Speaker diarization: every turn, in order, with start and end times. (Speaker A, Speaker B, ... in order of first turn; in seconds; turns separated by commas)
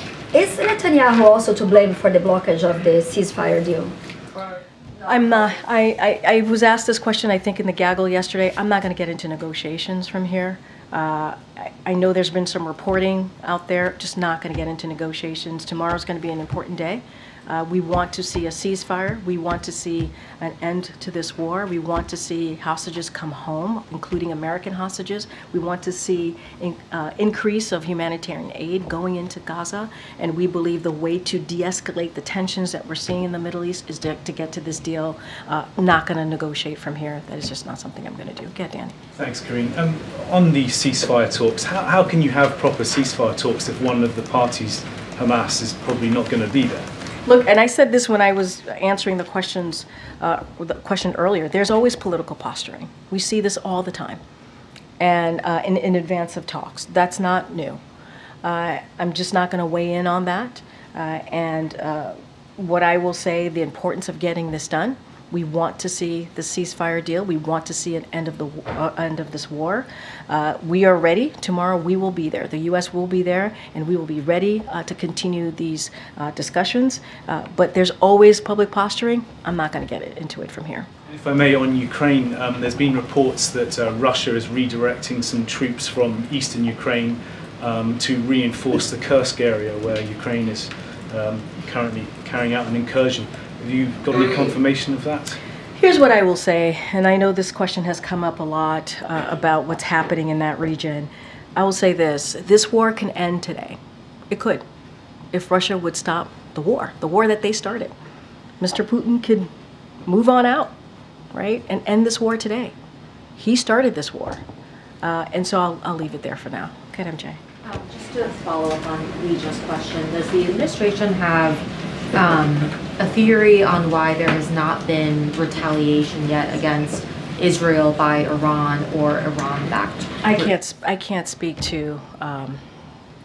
Speaker A: 0.3-5.6, Speaker B: 5.0-39.0, Speaker C: 39.1-46.9, Speaker B: 47.3-54.2, Speaker B: 55.0-57.8, Speaker B: 58.4-80.9, Speaker C: 81.1-95.4, Speaker B: 95.8-103.8, Speaker B: 104.3-104.6, Speaker B: 105.3-107.9, Speaker B: 108.6-109.5, Speaker B: 110.0-110.7, Speaker B: 111.3-112.7, Speaker B: 113.4-114.4, Speaker B: 115.0-117.4, Speaker D: 117.6-130.5, Speaker B: 130.2-132.6